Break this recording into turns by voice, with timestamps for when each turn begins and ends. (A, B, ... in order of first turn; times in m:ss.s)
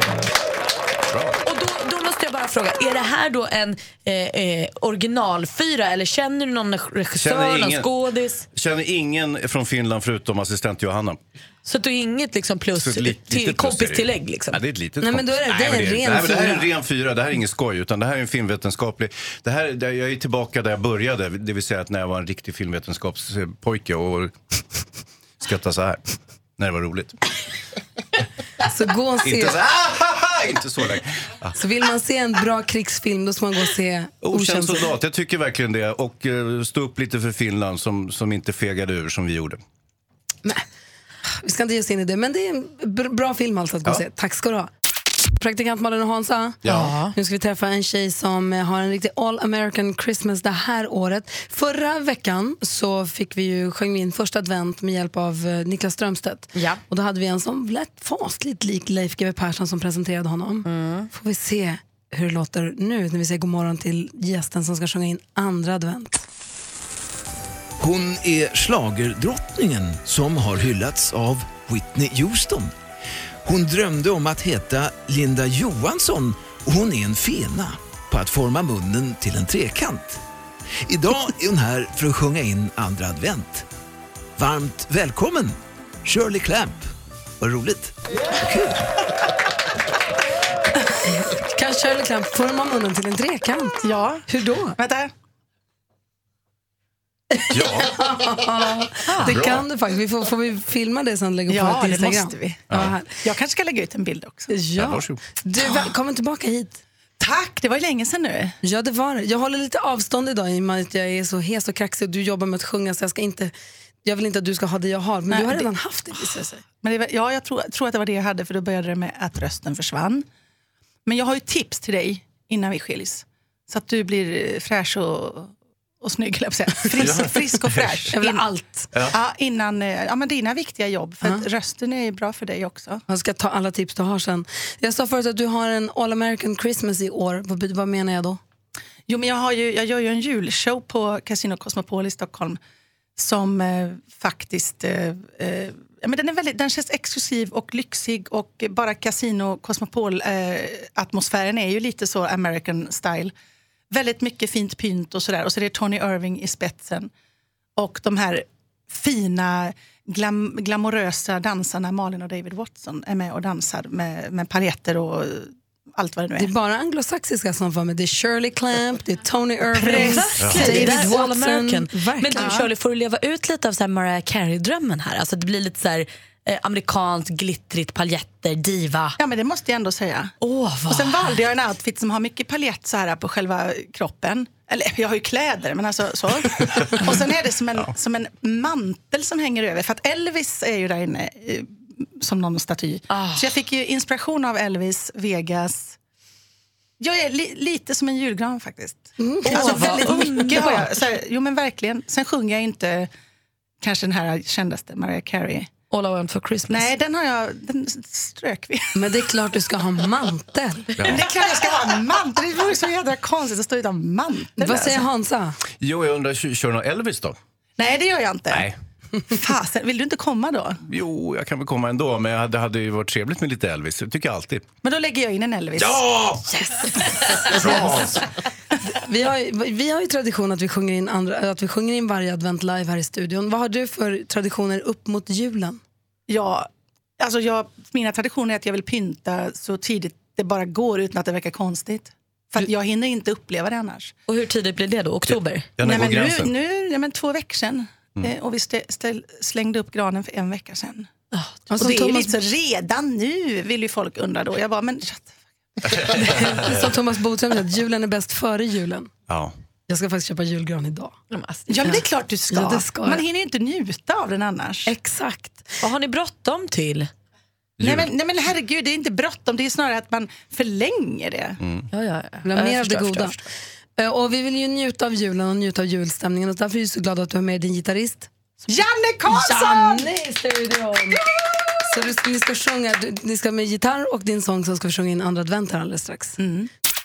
0:01.1-0:01.4 A
0:01.4-0:08.5 B
0:07.2-0:07.9 A
0:08.5-0:11.2 A
0:11.7-0:14.6 B
0:12.7-0:24.4 A
0:15.0-0:16.7 C
0:25.4-0:26.0 A
0:26.6-0:27.2 A
0:28.6-0:29.6 C
0:29.2-0:31.6 A
0:31.6-0:34.9 C
0:34.2-0:39.6 A
0:41.4-0:44.7 C
0:45.4-1:06.2 C
0:46.6-0:46.9 A
0:46.7-0:47.1 B
0:56.6-0:56.8 B
1:00.6-1:01.1 B
1:07.8-1:12.7 D
1:13.4-1:20.2 D
1:20.8-1:23.7 D
1:24.4-1:28.8 D
1:31.3-1:34.8 C
1:33.8-1:34.3 E
1:34.8-1:35.1 E
1:37.3-1:43.2 C
1:37.5-1:38.0 A
1:39.2-1:39.7 A
1:41.5-1:42.7 E
1:42.7-1:43.0 A
1:43.2-1:44.5 E
1:44.5-1:46.8 C
1:44.8-1:45.2 A
1:45.6-1:45.9 E
1:47.2-1:48.6 E
1:48.6-1:53.5 C
1:54.0-1:56.6 C
1:55.3-2:00.2 E
2:01.1-2:08.5 E
2:07.0-2:08.1 A
2:08.1-2:08.9 C
2:09.1-2:13.0 E
2:13.1-2:18.4 C
2:19.1-2:22.6 E
2:23.2-2:33.3 E
2:33.9-2:37.1 E
2:37.8-2:46.5 E
2:46.4-2:52.7 C
2:49.8-2:59.2 B
2:49.8-2:50.2 E
2:50.4-2:50.8 A
2:59.2-3:00.3 E
3:00.4-3:01.4 B
3:00.9-3:16.0 E
3:13.1-3:13.5 B
3:17.0-3:23.1 E
3:19.2-3:20.7 C
3:19.5-3:20.9 B
3:23.8-3:25.7 E
3:25.9-3:26.9 B
3:26.7-3:29.2 E
3:28.9-3:31.2 C
3:31.0-3:31.2 A
3:31.0-3:35.1 E
3:34.6-3:35.6 C
3:35.8-3:37.4 A
3:37.8-3:38.7 E
3:38.5-3:38.8 A
3:39.3-3:40.8 E
3:40.9-3:44.7 A
3:44.8-3:46.2 E
3:46.6-3:48.1 C
3:47.5-3:47.8 E
3:48.9-3:55.8 C
3:56.3-3:56.7 E
3:57.2-4:04.1 E
4:04.3-4:05.8 B
4:05.3-4:06.5 A
4:05.8-4:11.1 E
4:11.3-4:12.2 B
4:11.7-4:15.4 E
4:11.7-4:12.3 C
4:15.9-4:19.1 C
4:16.1-4:16.9 A
4:19.3-4:19.5 A
4:19.9-4:21.2 C
4:21.3-4:21.9 B
4:21.7-4:24.9 E
4:21.8-4:23.2 C
4:24.9-4:25.7 C
4:25.8-4:27.1 B
4:27.8-4:28.1 A
4:27.8-4:31.6 E
4:31.6-4:31.9 A
4:31.9-4:33.4 B
4:32.4-4:33.4 C
4:34.0-4:38.3 C
4:38.7-4:40.1 E
4:39.3-4:41.2 C
4:41.9-4:46.4 C
4:46.4-4:46.7 E